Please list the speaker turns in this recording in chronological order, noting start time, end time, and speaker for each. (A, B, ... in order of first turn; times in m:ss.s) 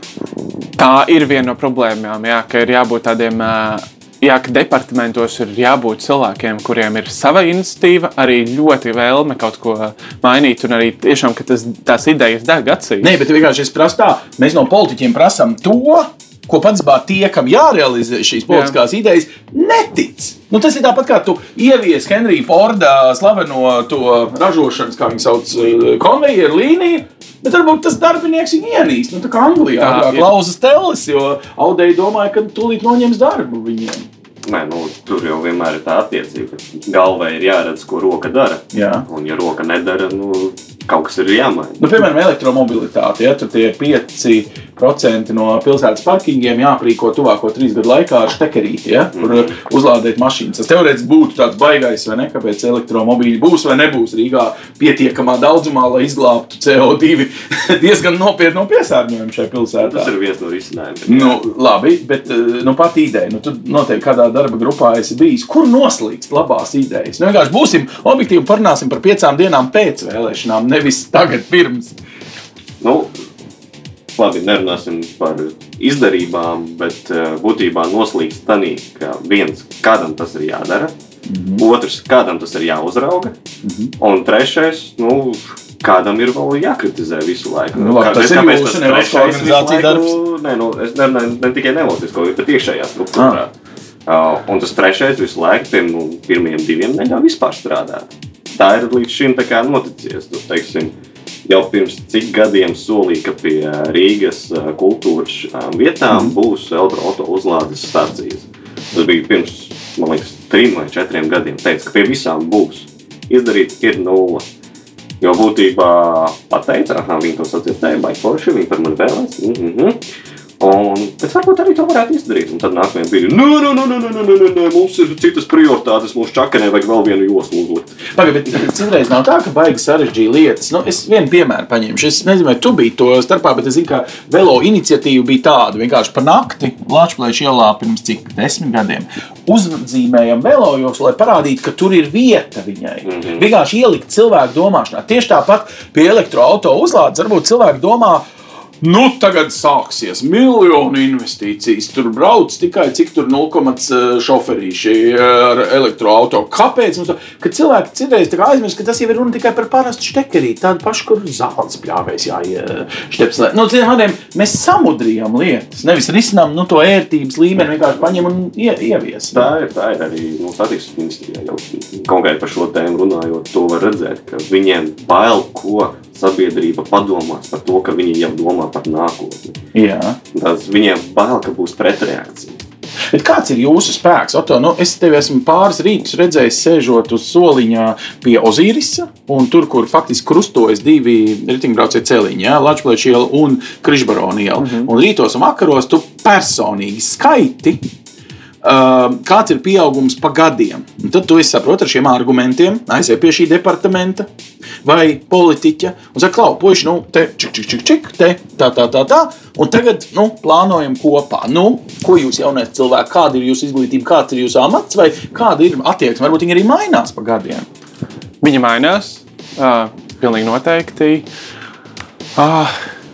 0:00.8-0:13.2 A
0:13.0-0:34.1 B
0:18.5-0:18.7 A
0:29.8-0:30.3 A
0:34.4-0:41.8 C
0:38.7-0:39.0 B
0:41.8-1:00.1 B
0:49.1-0:49.5 C
0:59.8-1:01.4 C
1:01.0-1:12.0 B
1:12.8-1:13.1 C
1:14.2-1:20.9 C
1:21.3-1:21.6 B
1:21.6-1:23.3 C
1:23.6-1:23.9 B
1:24.0-1:33.5 C
1:27.8-1:30.2 B
1:33.2-1:33.4 B
1:34.0-1:40.9 C
1:41.5-1:54.4 C
1:55.2-2:00.0 C
2:00.6-2:08.0 C
2:08.1-2:28.2 B
2:23.0-2:23.4 C
2:28.8-2:49.5 B
2:49.3-2:59.6 C
2:59.7-3:00.2 B
3:00.3-3:02.6 C
3:03.1-3:17.8 B
3:14.6-3:14.9 A
3:18.6-3:24.3 B
3:24.8-3:37.6 B
3:38.4-3:41.2 A
3:42.4-3:42.8 A